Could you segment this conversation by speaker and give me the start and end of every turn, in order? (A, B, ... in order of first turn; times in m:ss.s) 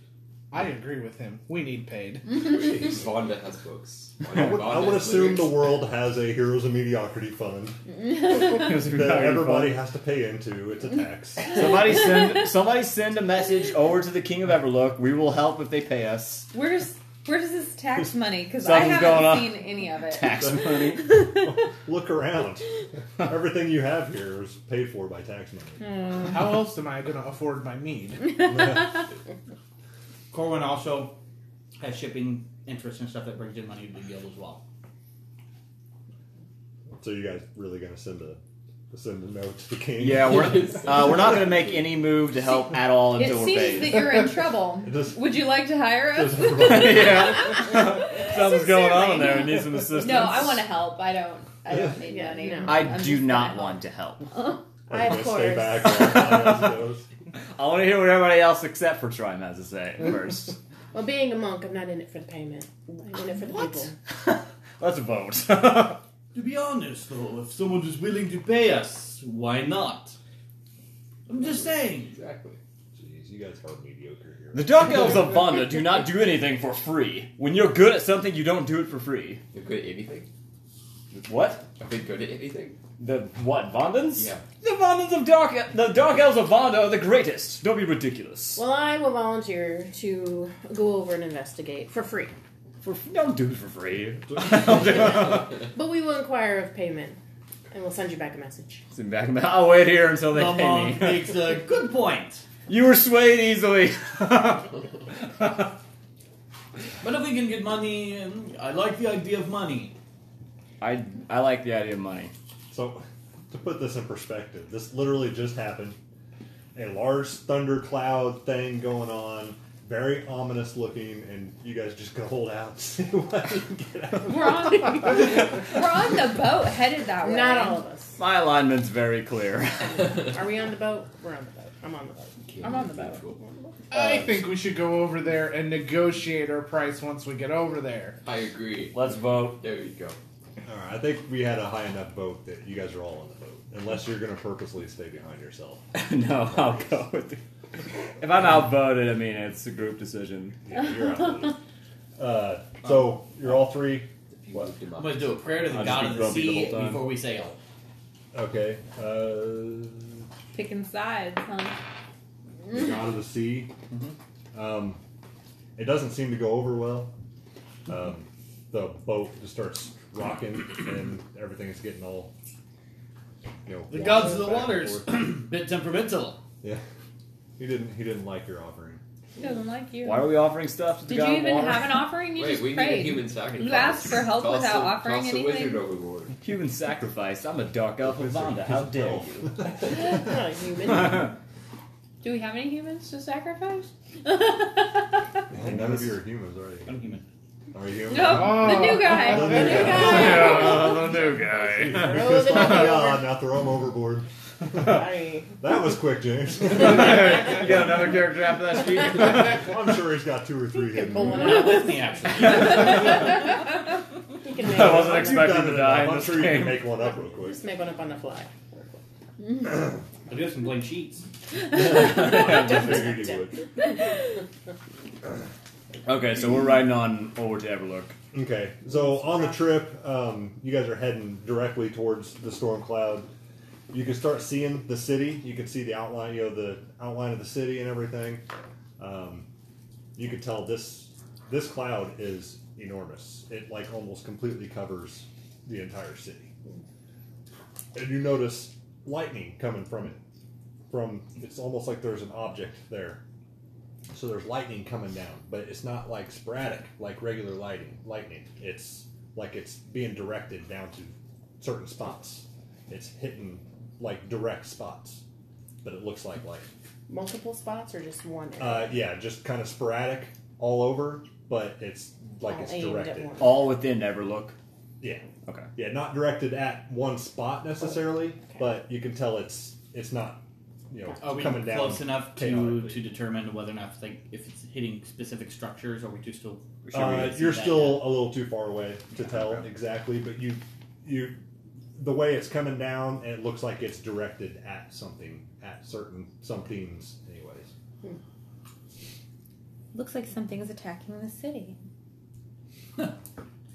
0:00.5-0:02.4 A
0:02.3-0:05.8 B
0:04.3-0:07.8 C
0:08.1-0:08.7 D
0:08.3-0:09.8 E
0:08.8-0:11.6 C
0:11.4-0:16.5 E
0:16.5-0:21.4 D
0:18.6-0:21.1 E
0:20.3-0:25.9 C
0:26.2-0:28.4 A
0:28.4-0:29.1 C
0:30.3-0:31.2 F
0:31.8-0:34.6 F
0:37.0-0:38.4 C
0:38.9-0:40.8 C
0:40.0-0:44.1 E
0:40.2-0:41.8 B
0:43.1-0:54.6 D
0:44.8-0:45.4 C
0:46.1-0:47.6 C
0:46.6-0:50.6 E
0:52.0-0:52.9 G
0:52.6-0:54.3 E
0:54.9-0:56.1 G
0:54.9-0:57.1 C
0:57.5-1:00.6 E
1:00.9-1:04.0 G
1:04.1-1:06.0 E
1:06.3-1:10.2 F
1:11.3-1:12.2 F
1:11.3-1:12.6 B
1:12.9-1:15.2 C
1:14.5-1:19.4 E
1:19.5-1:20.3 B
1:21.1-1:21.7 E
1:21.8-1:22.8 B
1:23.0-1:28.6 E
1:24.1-1:24.5 B
1:28.6-1:32.3 G
1:32.8-1:35.6 E
1:35.4-1:37.2 G
1:37.7-1:38.8 G
1:38.9-1:41.5 E
1:40.3-1:42.5 F
1:42.7-1:45.7 E
1:47.0-1:49.9 F
1:50.8-1:52.3 E
1:52.7-1:56.0 C
1:56.7-2:05.2 C
2:04.2-2:07.8 D
2:07.2-2:08.2 G
2:08.2-2:10.3 E
2:10.1-2:12.4 G
2:12.4-2:13.4 B
2:12.6-2:13.2 D
2:13.9-2:18.2 A
2:18.2-2:20.2 B
2:18.9-2:19.6 E
2:20.6-2:25.8 C
2:25.9-2:27.4 E
2:28.2-2:30.6 E
2:30.6-2:31.6 C
2:32.2-2:34.7 C
2:34.3-2:35.8 B
2:35.0-2:37.6 F
2:35.7-2:36.9 E
2:35.7-2:37.0 C
2:38.3-2:40.2 C
2:40.5-2:41.8 D
2:42.7-2:43.7 C
2:44.5-2:45.0 C
2:45.8-2:47.1 C
2:47.9-2:52.3 C
2:53.6-2:55.4 C
2:53.9-2:56.4 F
2:57.6-2:59.0 C
2:59.4-3:00.4 D
3:00.0-3:02.0 E
3:01.0-3:05.8 D
3:02.3-3:06.4 B
3:06.4-3:09.7 E
3:08.0-3:10.1 C
3:09.9-3:11.3 G
3:12.2-3:15.4 D
3:15.5-3:17.0 C
3:16.8-3:17.2 F
3:17.7-3:25.0 C
3:18.1-3:21.0 D
3:18.5-3:19.1 A
3:19.8-3:22.6 E
3:21.9-3:23.3 G
3:24.7-3:25.5 G
3:25.6-3:27.6 C
3:26.7-3:29.6 E
3:29.2-3:31.5 C
3:30.8-3:32.2 G
3:31.3-3:33.3 F
3:32.4-3:33.2 E
3:34.4-3:35.7 G
3:34.6-3:36.8 E
3:34.7-3:37.6 C
3:37.0-3:39.0 G
3:40.3-3:41.3 F
3:41.7-3:43.6 C
3:42.0-3:43.0 E
3:42.0-3:43.4 G
3:46.0-3:48.2 E
3:48.3-3:53.3 C
3:53.9-3:58.4 C
3:59.0-3:59.5 C
4:00.1-4:06.5 C
4:07.9-4:10.2 C
4:10.9-4:13.2 C
4:14.1-4:25.2 C
4:25.8-4:26.7 C
4:27.1-4:29.0 G
4:28.6-4:33.4 C
4:32.4-4:33.7 G
4:33.4-4:34.6 E
4:35.0-4:43.0 C
4:41.2-4:48.2 F
4:46.9-4:51.4 C
4:52.0-4:57.7 C
4:59.9-5:01.8 D